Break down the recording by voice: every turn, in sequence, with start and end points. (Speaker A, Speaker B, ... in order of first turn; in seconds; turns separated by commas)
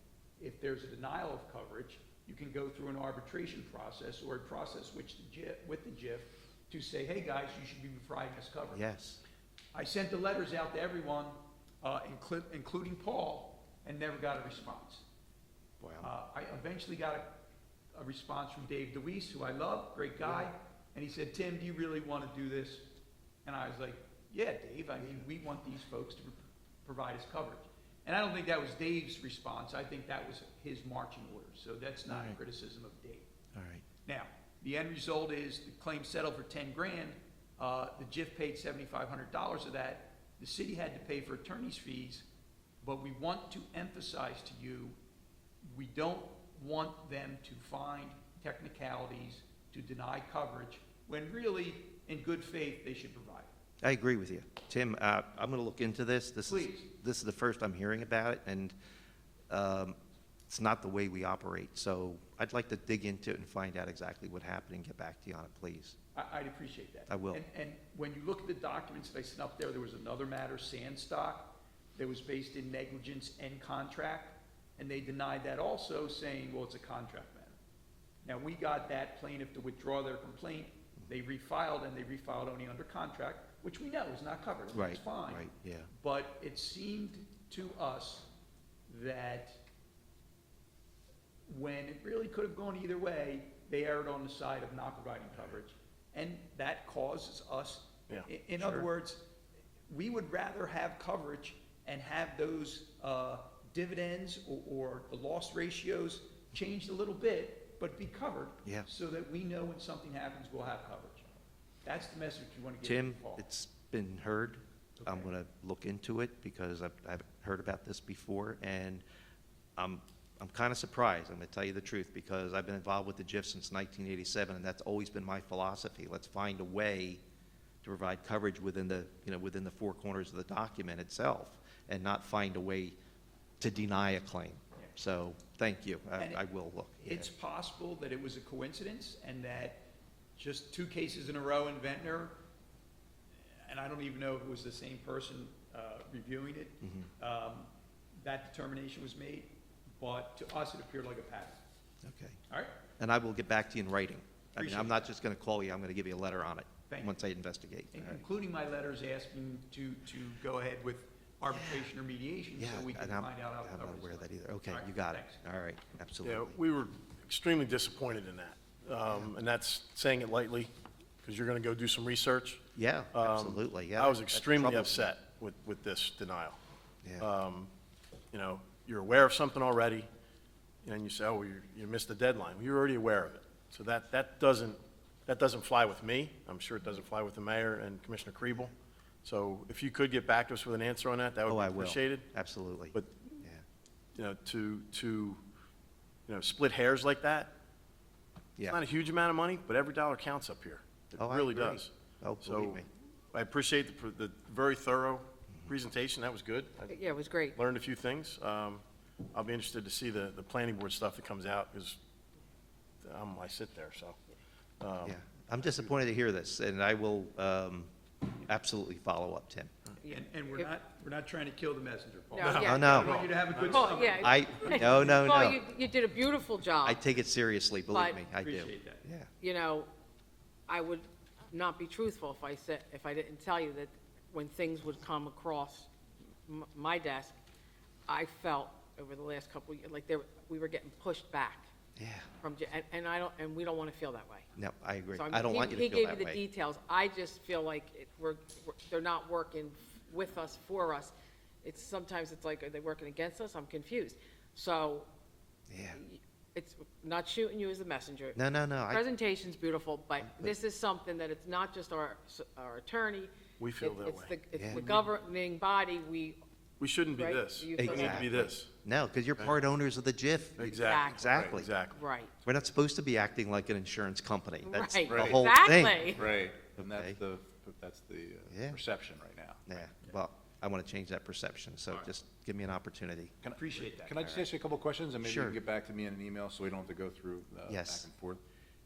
Speaker A: 0.4-8.8, Speaker B: 8.7-9.2, Speaker A: 9.7-15.1, Speaker B: 15.8-16.1, Speaker A: 16.0-17.4, Speaker A: 17.9-22.9, Speaker A: 23.4-33.3, Speaker B: 32.1-32.4, Speaker B: 33.5-33.8, Speaker A: 34.0-42.3, Speaker A: 42.8-45.0, Speaker A: 45.6-53.5, Speaker B: 53.8-58.8, Speaker A: 56.5-56.9, Speaker B: 59.5-60.0, Speaker B: 60.5-66.0, Speaker A: 66.2-77.6, Speaker B: 67.1-67.4, Speaker A: 78.2-88.3, Speaker B: 84.7-85.9, Speaker A: 88.9-89.6, Speaker A: 91.5-99.3, Speaker B: 98.6-98.9, Speaker A: 99.9-113.5, Speaker B: 112.8-119.0, Speaker A: 115.0-115.3, Speaker B: 119.8-127.2, Speaker B: 127.8-133.0, Speaker B: 133.6-137.3, Speaker A: 136.2-136.4, Speaker A: 137.0-142.4, Speaker A: 143.7-151.6, Speaker B: 146.8-147.1, Speaker B: 152.0-152.4, Speaker A: 152.5-152.8, Speaker B: 153.0-158.2, Speaker A: 154.6-155.1, Speaker A: 156.9-157.2, Speaker A: 157.9-165.4, Speaker B: 161.5-161.9, Speaker B: 162.6-166.6, Speaker C: 166.2-170.7, Speaker C: 171.2-172.6, Speaker B: 172.8-175.0, Speaker C: 173.1-176.6, Speaker C: 177.2-177.7, Speaker C: 178.3-180.1, Speaker C: 180.8-188.7, Speaker C: 189.2-192.3, Speaker B: 191.5-193.6, Speaker C: 192.9-193.3, Speaker C: 194.2-195.4, Speaker C: 196.3-197.6, Speaker C: 198.7-201.9, Speaker B: 201.2-202.9, Speaker C: 202.4-208.8, Speaker D: 206.9-207.6, Speaker C: 209.3-212.0, Speaker C: 213.0-214.2, Speaker C: 214.8-215.2, Speaker B: 215.0-219.7, Speaker D: 220.0-220.6, Speaker A: 220.1-225.4, Speaker C: 222.3-224.0, Speaker D: 222.4-223.0, Speaker B: 222.6-223.1, Speaker D: 223.6-227.0, Speaker B: 224.2-225.6, Speaker B: 226.8-229.3, Speaker D: 227.9-228.2, Speaker A: 228.4-229.0, Speaker D: 229.4-229.9, Speaker D: 230.7-235.9, Speaker D: 236.5-237.4, Speaker D: 238.1-241.7, Speaker B: 242.0-242.3, Speaker D: 242.4-244.5, Speaker B: 244.6-246.4, Speaker D: 245.1-255.1, Speaker B: 255.7-256.0, Speaker D: 255.9-266.4, Speaker B: 258.4-259.0, Speaker B: 260.2-260.6, Speaker C: 263.6-264.4, Speaker B: 264.6-264.9, Speaker C: 266.8-268.7, Speaker D: 267.1-268.5, Speaker B: 267.8-271.7, Speaker C: 270.6-272.0, Speaker D: 270.7-272.3, Speaker B: 272.4-277.2, Speaker D: 274.6-276.2, Speaker E: 275.1-275.5, Speaker E: 276.2-279.7, Speaker B: 278.5-278.8, Speaker B: 279.7-283.4, Speaker E: 283.4-288.4, Speaker A: 283.6-284.2, Speaker B: 285.2-285.6, Speaker B: 287.7-288.1